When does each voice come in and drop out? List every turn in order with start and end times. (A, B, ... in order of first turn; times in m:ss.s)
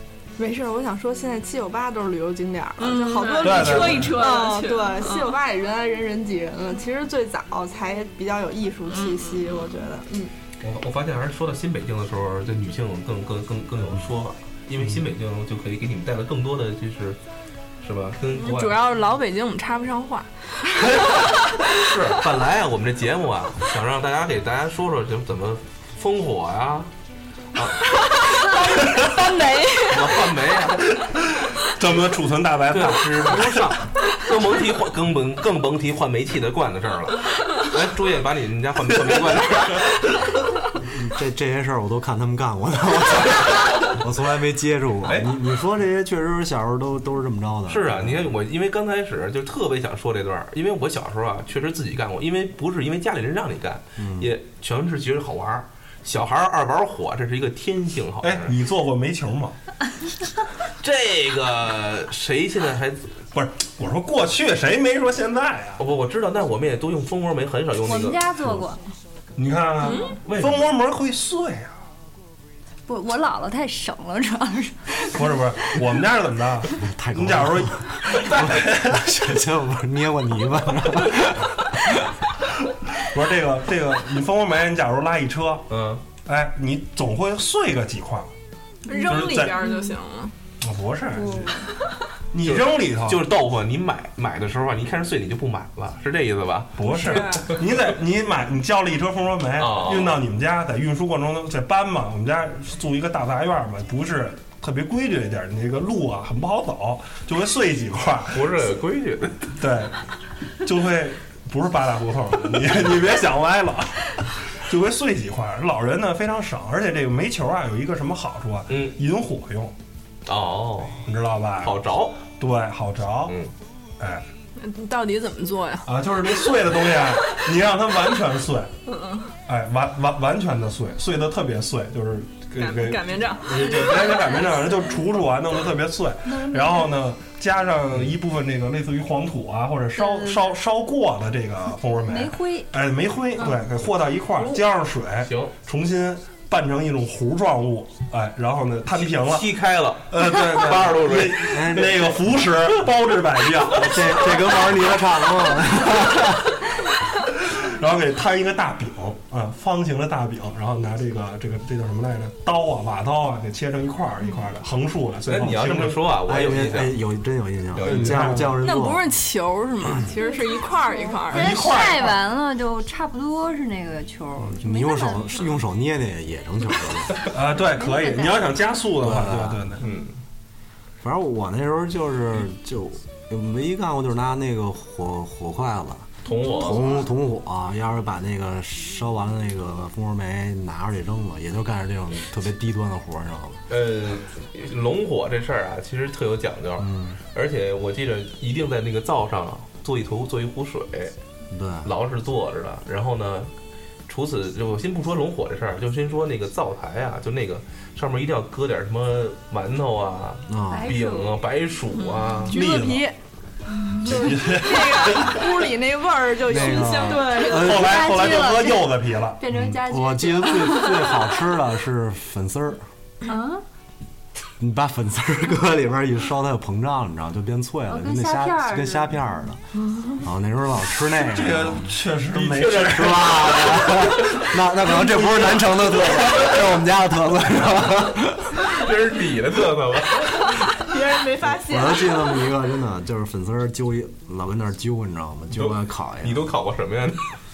0:00.4-0:10.3 A
0:02.8-0:05.3 B
0:03.4-0:04.2 C
0:08.9-0:09.7 B
0:10.6-0:17.2 D
0:17.8-0:18.8 D
0:18.4-0:21.2 B
0:21.7-0:26.9 D
0:28.0-0:30.1 B
0:29.8-0:30.9 D
0:31.0-0:33.7 C
0:32.7-0:39.9 D
0:40.8-0:48.3 E
0:47.7-0:58.5 D
0:54.0-0:54.3 E
0:58.2-0:59.6 C
1:00.8-1:03.0 D
1:03.3-1:05.8 C
1:05.8-1:08.6 D
1:07.8-1:08.8 F
1:09.4-1:11.8 C
1:09.8-1:10.1 B
1:10.2-1:10.7 D
1:12.9-1:15.3 F
1:15.1-1:19.1 C
1:16.8-1:21.5 E
1:18.1-1:18.4 D
1:22.9-1:25.7 C
1:25.7-1:26.0 D
1:26.2-1:28.3 C
1:28.9-1:30.3 B
1:29.1-1:29.6 C
1:30.6-1:31.6 C
1:31.3-1:31.5 F
1:32.3-1:33.3 C
1:32.4-1:36.9 D
1:36.8-1:48.6 C
1:36.9-1:37.5 B
1:39.6-1:40.2 D
1:48.3-1:49.5 D
1:49.6-1:50.0 C
1:50.6-1:59.7 C
1:58.7-1:59.0 D
2:00.3-2:01.1 D
2:01.0-2:03.4 C
2:01.6-2:02.2 D
2:03.3-2:03.5 D
2:04.0-2:04.2 C
2:04.6-2:06.5 B
2:05.8-2:08.7 C
2:08.9-2:09.3 B
2:09.5-2:29.5 C
2:12.6-2:14.4 B
2:16.3-2:16.9 F
2:20.0-2:20.4 F
2:22.1-2:22.7 F
2:25.2-2:25.5 D
2:28.9-2:32.2 D
2:30.1-2:34.7 C
2:31.4-2:32.0 E
2:33.8-2:36.4 E
2:37.4-2:46.2 C
2:45.2-2:47.0 D
2:46.2-2:49.1 E
2:47.7-2:48.5 D
2:47.8-2:48.6 C
2:48.6-2:51.6 B
2:50.1-2:55.6 F
2:51.3-2:52.3 C
2:54.4-2:57.3 E
2:57.3-2:59.9 C
2:57.6-2:58.8 F
2:59.0-2:59.7 E
2:59.8-3:00.2 D
3:01.0-3:13.6 E
3:06.2-3:07.0 D
3:13.7-3:21.2 D
3:16.8-3:17.2 E
3:21.5-3:21.9 E
3:21.8-3:23.5 D
3:24.1-3:32.6 D
3:30.5-3:30.9 E
3:30.7-3:31.4 F
3:32.1-3:33.0 B
3:32.5-3:33.1 C
3:32.7-3:33.0 A
3:33.8-3:34.5 F
3:34.0-3:35.4 C
3:34.5-3:37.7 A
3:36.5-3:38.1 E
3:37.4-3:41.5 F
3:37.5-3:39.4 C
3:39.5-3:42.8 E
3:43.2-3:43.6 F
3:44.6-3:49.6 E
3:47.9-3:49.3 F
3:50.2-3:51.9 E
3:51.3-3:53.3 C
3:52.3-3:56.6 D
3:52.6-3:58.7 E
3:58.6-4:00.6 D
4:00.8-4:02.5 A
4:01.4-4:06.5 E
4:05.6-4:07.3 D